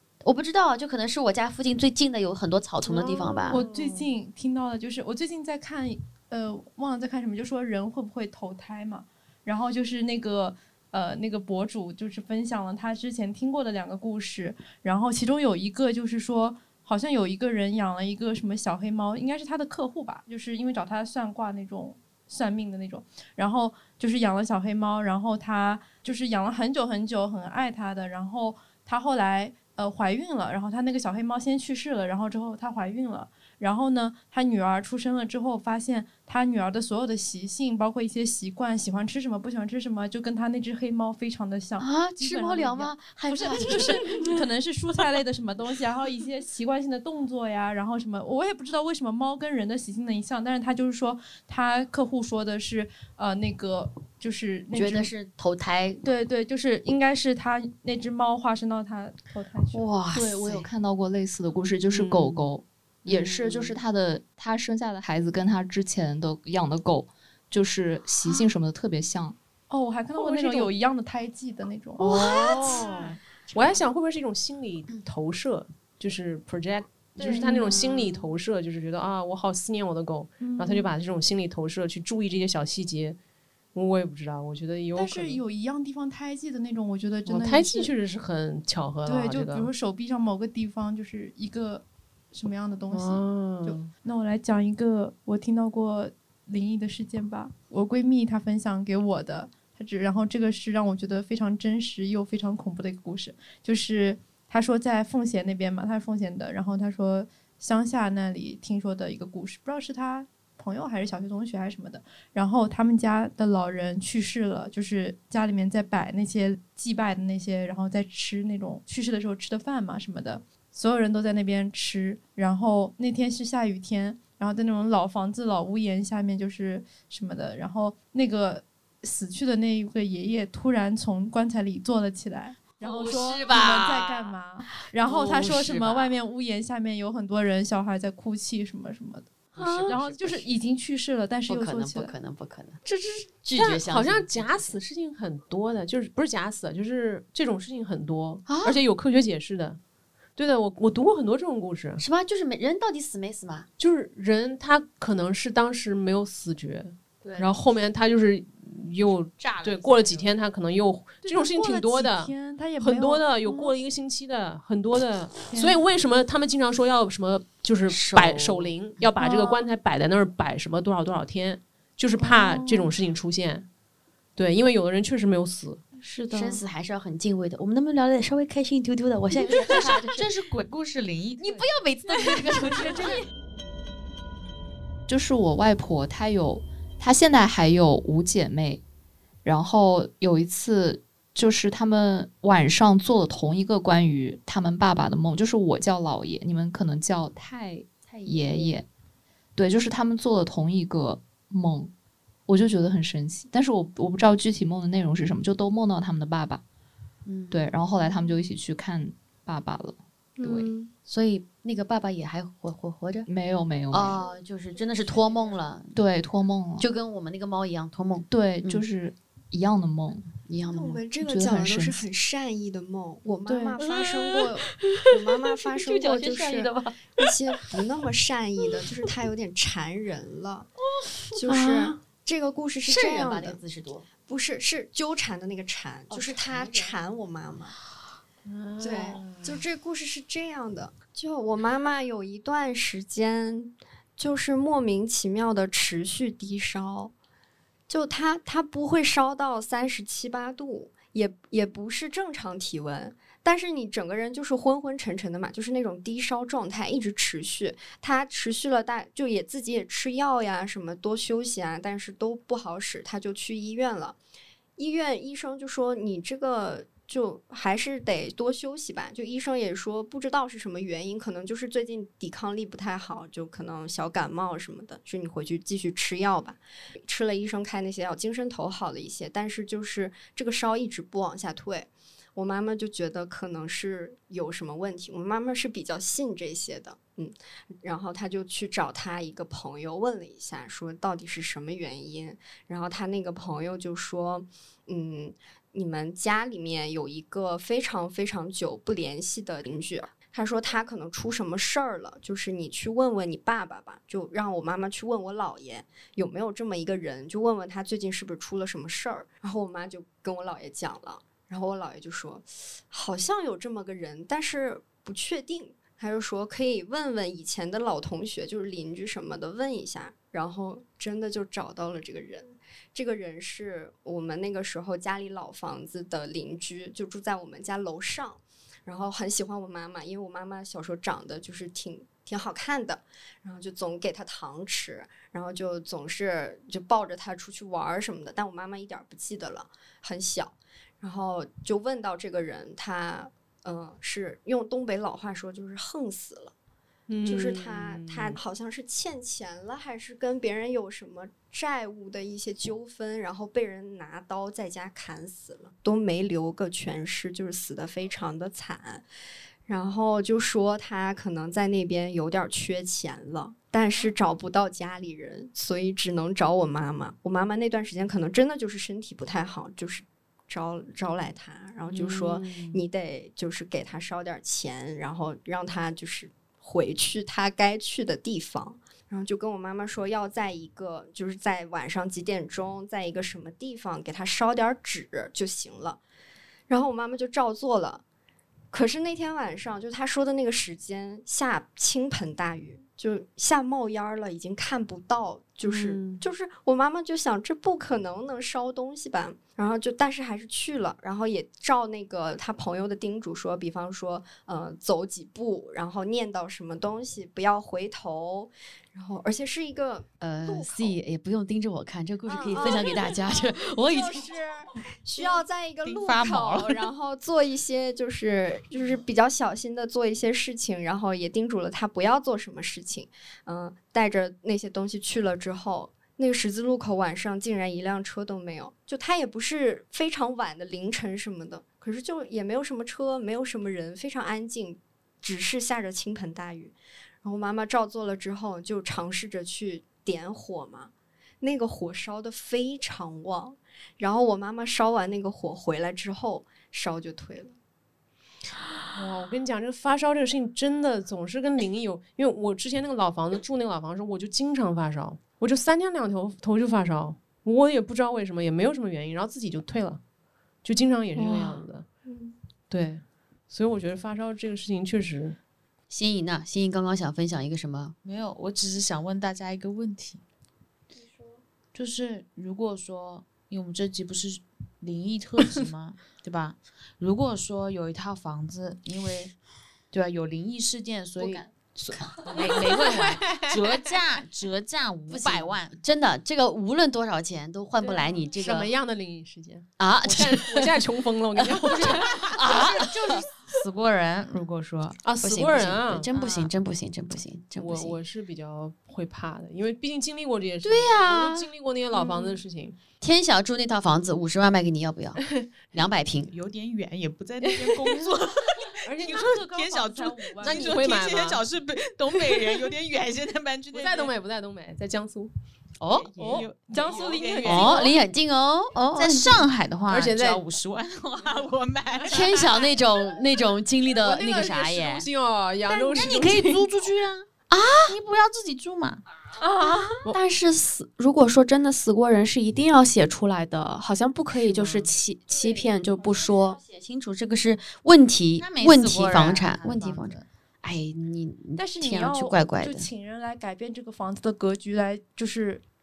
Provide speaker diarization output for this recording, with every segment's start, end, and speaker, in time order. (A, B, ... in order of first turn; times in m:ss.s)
0:00.2-0:03.6 A
0:02.8-0:04.1 B
0:03.4-0:55.1 C
0:41.8-0:44.4 A
0:54.7-0:56.0 A
0:56.0-0:59.9 C
0:59.7-1:00.7 A
1:00.1-1:09.4 D
1:01.9-1:02.5 B
1:03.1-1:03.8 A
1:09.7-1:12.2 C
1:10.1-1:10.7 B
1:12.0-1:23.2 B
1:12.0-1:13.0 A
1:17.2-1:18.3 A
1:17.2-1:17.9 C
1:20.4-1:20.9 C
1:23.7-1:25.4 B
1:25.0-1:27.9 C
1:27.3-1:29.7 B
1:29.0-2:22.1 C
1:32.9-1:33.9 B
2:12.8-2:14.4 A
2:15.0-2:16.1 A
2:19.6-2:20.6 A
2:21.5-2:24.8 A
2:23.6-2:29.8 B
2:28.5-2:28.8 A
2:30.4-2:32.0 B
2:32.0-2:33.7 A
2:33.8-2:53.7 B
2:39.4-2:40.3 A
2:41.2-2:43.7 C
2:45.5-2:45.8 C
2:47.9-2:48.8 A
2:49.2-2:49.7 C
2:52.2-2:52.9 C
2:54.4-2:55.8 B
2:56.0-2:56.6 E
2:56.3-3:00.3 A
2:59.4-3:01.7 F
3:01.4-3:03.2 A
3:05.1-3:08.8 D
3:09.4-3:18.9 D
3:18.2-3:18.8 A
3:19.6-3:21.9 D
3:22.5-3:26.6 D
3:27.3-3:27.8 A
3:27.5-3:30.7 D
3:30.5-3:30.9 E
3:31.1-3:33.3 A
3:33.3-3:34.2 D
3:33.9-3:36.0 A
3:36.0-3:36.9 D
3:36.8-3:38.8 A
3:38.3-3:40.3 D
3:40.5-3:41.0 A
3:40.8-3:50.7 G
3:41.2-3:42.1 D
3:45.8-3:46.9 E
3:51.3-3:53.6 G
3:51.5-3:52.0 E
3:52.8-3:54.1 A
3:54.3-3:57.8 G
3:56.1-3:57.0 A
3:58.4-3:59.6 B
3:58.8-4:07.1 G
4:07.9-4:24.2 G
4:24.8-5:46.5 G
5:47.1-5:48.4 B
5:47.2-5:59.1 G
5:59.7-6:26.0 G
6:11.9-6:12.6 B
6:26.7-6:28.0 G
6:28.7-6:51.0 G
6:35.6-6:36.2 B
6:50.2-6:54.3 A
6:52.3-7:27.6 G
6:55.8-6:56.9 F
7:28.9-7:40.0 B
7:40.6-7:41.9 B
7:42.1-7:42.3 G
7:42.7-7:45.4 B
7:45.9-7:48.0 A
7:48.0-7:50.2 F
7:51.0-7:51.4 G
7:51.7-7:59.4 F
7:59.9-8:05.8 F
8:02.4-8:03.9 B
8:05.1-8:08.7 A
8:07.8-8:12.3 B
8:09.8-8:13.3 A
8:12.2-8:15.0 F
8:15.0-8:16.1 B
8:15.2-8:18.0 A
8:16.1-8:16.5 F
8:17.6-8:22.8 B
8:20.6-8:22.4 A
8:23.0-8:25.2 A
8:25.7-8:26.3 A
8:26.3-8:34.1 F
8:28.9-8:29.4 B
8:29.0-8:30.8 C
8:30.4-8:31.4 B
8:33.7-8:35.3 B
8:35.8-8:36.2 A
8:35.9-8:38.0 F
8:36.2-8:38.0 C
8:36.2-8:36.5 B
8:37.4-8:39.5 A
8:38.9-8:42.7 F
8:39.9-8:40.4 B
8:42.1-8:45.1 A
8:44.0-8:46.7 B
8:45.7-8:47.3 F
8:47.5-8:48.0 A
8:47.9-8:49.0 F
8:49.4-8:50.0 C
8:50.0-8:56.6 E
8:54.3-8:54.9 B
8:56.6-9:02.9 A
8:58.4-9:00.3 F
9:01.6-9:05.6 C